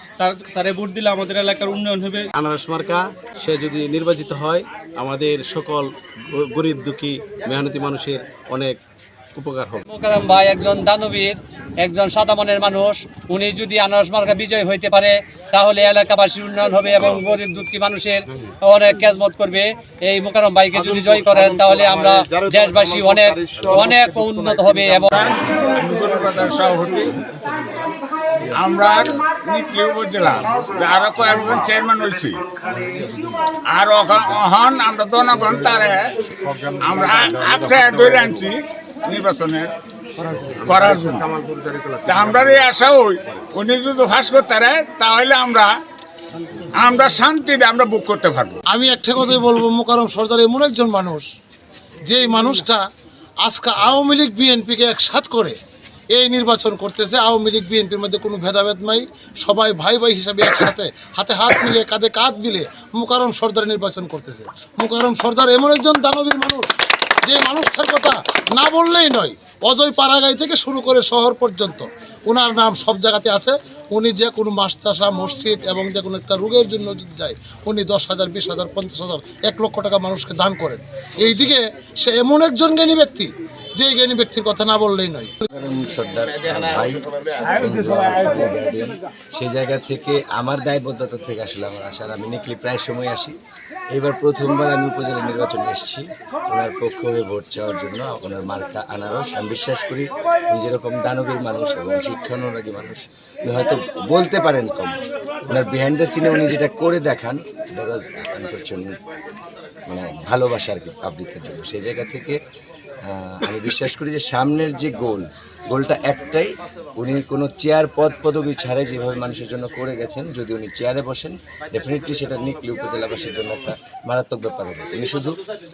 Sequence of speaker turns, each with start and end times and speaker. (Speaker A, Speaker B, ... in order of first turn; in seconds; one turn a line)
Speaker A: 0.2-2.3
Speaker B: 2.4-8.8
Speaker B: 9.3-9.8
Speaker C: 9.9-25.2
Speaker B: 20.7-25.0
Speaker D: 25.1-27.2
Speaker D: 28.5-32.4
Speaker D: 33.7-36.1
Speaker D: 36.8-39.7
Speaker D: 40.6-41.3
Speaker B: 41.5-42.0
Speaker D: 42.0-45.8
Speaker D: 46.8-48.6
Speaker E: 48.7-51.2
Speaker E: 52.0-52.8
Speaker E: 53.4-55.5
Speaker E: 56.1-66.7
Speaker E: 67.2-85.3
Speaker F: 85.5-93.4
Speaker F: 93.9-109.0
Speaker F: 109.9-112.4
Speaker F: 113.0-125.4